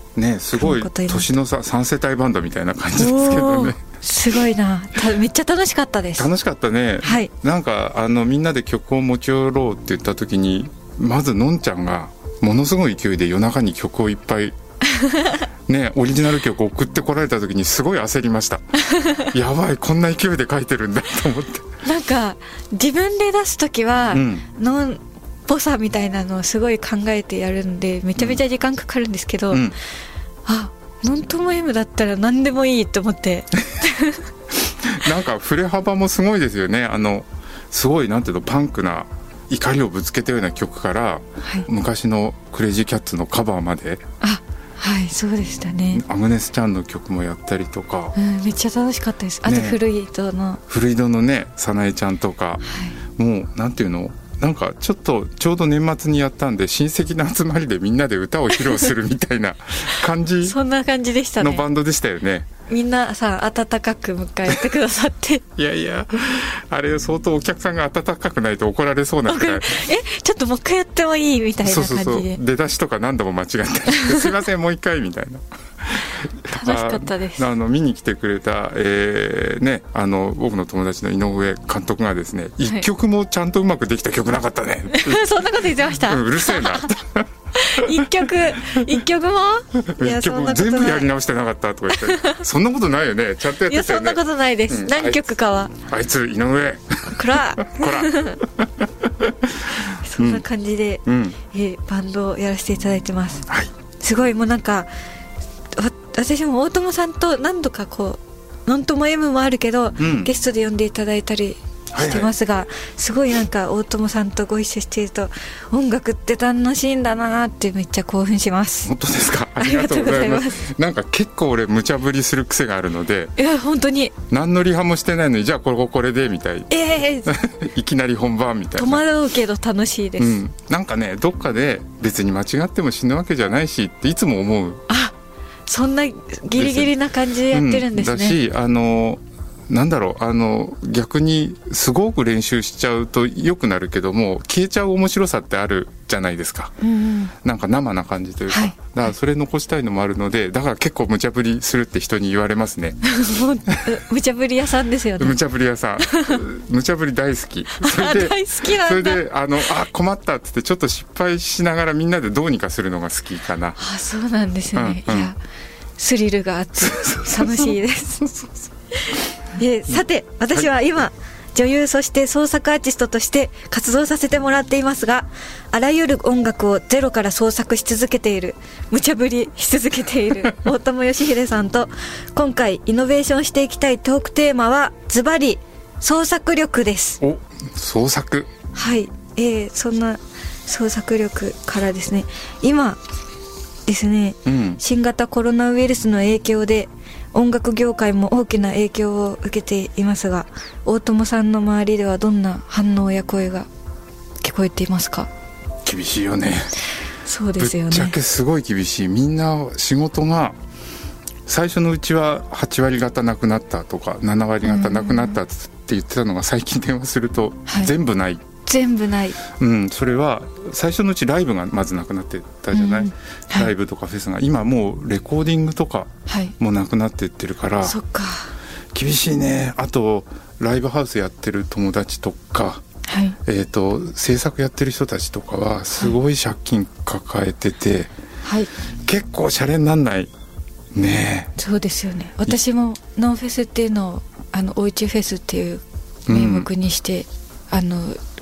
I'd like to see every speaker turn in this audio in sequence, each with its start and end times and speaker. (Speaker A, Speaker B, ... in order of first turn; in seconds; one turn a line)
Speaker A: 0.2-3.8
Speaker B: 0.6-1.3
Speaker B: 3.0-6.3
Speaker A: 6.2-14.6
Speaker B: 7.0-7.3
Speaker B: 14.9-15.5
Speaker A: 15.7-18.8
Speaker B: 18.8-19.3
Speaker A: 19.3-21.7
Speaker B: 21.8-29.7
Speaker A: 24.1-24.4
Speaker B: 30.5-34.2
Speaker A: 34.8-44.0
Speaker B: 44.2-46.0
Speaker A: 45.9-48.1
Speaker B: 48.1-50.6
Speaker A: 49.5-49.8
Speaker A: 50.7-52.6
Speaker B: 52.6-53.0
Speaker A: 53.2-60.6
Speaker B: 60.4-61.6
Speaker A: 61.4-62.5
Speaker B: 62.7-65.5
Speaker A: 65.6-69.7
Speaker B: 69.3-72.4
Speaker A: 71.6-88.1
Speaker B: 73.9-74.3
Speaker B: 76.5-77.5
Speaker B: 84.9-86.9
Speaker B: 87.5-91.1
Speaker A: 89.8-95.3
Speaker B: 92.0-92.4
Speaker B: 93.7-95.7
Speaker A: 95.8-100.5
Speaker B: 97.1-98.4
Speaker B: 99.8-103.5
Speaker A: 101.1-101.4
Speaker B: 104.0-104.9
Speaker B: 105.8-118.9
Speaker A: 110.0-110.3
Speaker A: 111.9-112.3
Speaker A: 118.8-123.3
Speaker B: 119.6-120.6
Speaker B: 123.4-124.2
Speaker A: 124.3-126.7
Speaker B: 126.7-127.3
Speaker A: 127.2-129.1
Speaker B: 128.8-130.4
Speaker A: 130.2-134.8
Speaker B: 134.9-135.1
Speaker B: 135.7-138.4
Speaker A: 136.6-136.9
Speaker A: 137.5-146.7
Speaker B: 146.8-147.3
Speaker A: 147.4-153.0
Speaker B: 148.5-148.8
Speaker B: 153.1-155.4
Speaker A: 155.2-163.8
Speaker B: 156.1-156.4
Speaker B: 157.8-159.2
Speaker B: 163.8-165.4
Speaker A: 164.7-165.3
Speaker B: 166.0-168.2
Speaker A: 166.8-168.7
Speaker B: 169.0-187.2
Speaker A: 187.2-188.5
Speaker B: 188.7-193.0
Speaker B: 193.9-203.7
Speaker A: 194.5-194.8
Speaker B: 204.4-205.3
Speaker A: 205.8-206.7
Speaker B: 207.2-208.2
Speaker A: 207.6-210.6
Speaker A: 211.5-218.4
Speaker B: 214.7-215.4
Speaker B: 218.7-219.4
Speaker A: 219.6-228.0
Speaker B: 222.7-223.7
Speaker B: 226.3-226.5
Speaker B: 227.8-228.5
Speaker A: 228.9-232.8
Speaker B: 233.1-233.4
Speaker A: 233.4-238.1
Speaker A: 239.1-240.3
Speaker A: 240.9-241.5
Speaker B: 241.6-248.2
Speaker A: 246.3-246.7